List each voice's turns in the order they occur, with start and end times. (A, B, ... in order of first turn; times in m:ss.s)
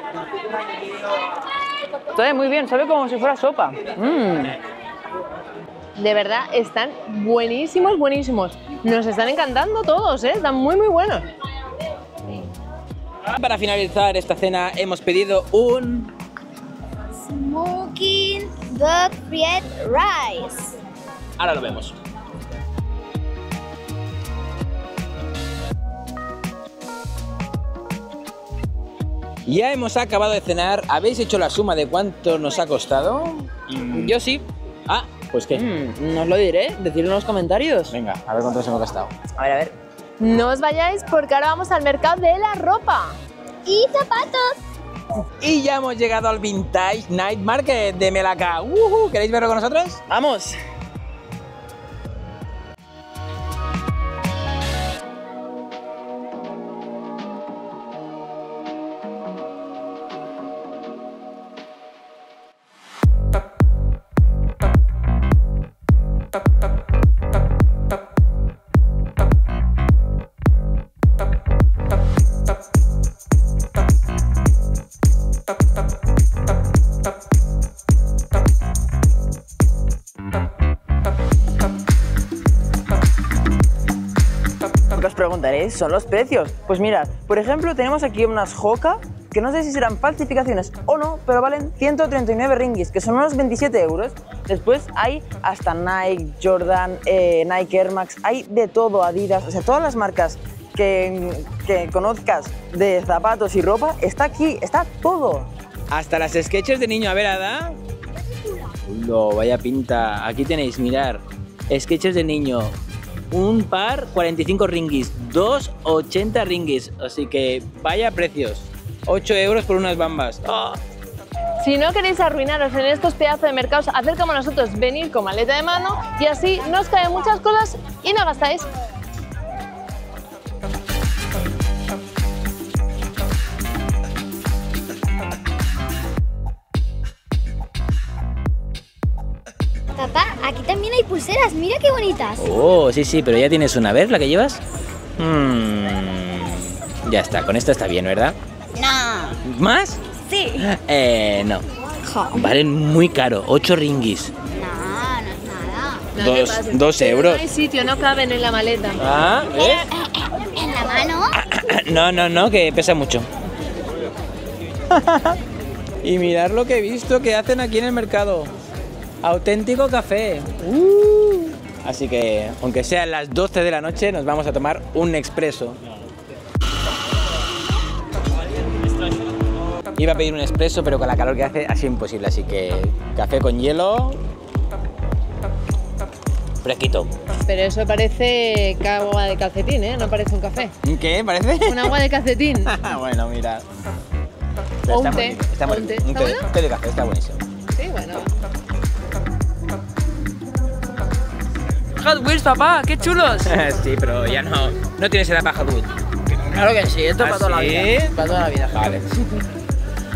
0:02.1-0:04.6 A
0:06.0-0:11.3 B
0:13.3-0:16.1 C
0:17.2-0:20.8 D
0:21.4-0:22.0 C
0:29.4-0:34.1 C
0:33.9-0:34.4 A
0:34.9-0:35.6 C
0:35.5-0:37.9 A
0:37.9-0:39.1 C
0:39.4-0:39.7 A
0:40.2-0:43.2 B
0:43.6-0:44.6 D
0:45.4-0:50.0 C
0:50.1-0:50.6 A
1:24.9-1:45.5 A
1:45.9-1:47.8 C
1:48.8-1:52.7 C
1:53.3-2:00.8 C
2:01.6-2:08.7 B
2:20.0-2:22.4 D
2:22.4-2:24.6 C
2:25.2-2:28.4 C
2:28.7-2:29.4 D
2:29.4-2:30.0 C
2:30.3-2:30.6 D
2:30.6-2:31.6 C
2:32.0-2:32.5 D
2:32.3-2:34.3 C
2:34.5-2:36.1 D
2:36.1-2:39.0 B
2:36.2-2:37.4 C
2:39.0-2:39.9 C
2:39.5-2:41.3 D
2:41.3-2:43.3 C
2:44.9-2:45.4 C
2:46.0-2:48.5 C
2:49.2-2:55.8 C
3:00.0-3:04.2 C
3:06.6-3:07.1 C
3:07.4-3:10.7 B
3:10.8-3:11.9 C
3:11.6-3:12.7 B
3:12.6-3:13.6 C
3:14.8-3:17.4 C
3:14.9-3:16.5 B
3:17.7-3:18.3 B
3:22.0-3:25.9 C
3:22.0-3:23.0 A
3:26.3-3:28.8 A
3:27.2-3:28.2 C
3:28.7-3:29.2 C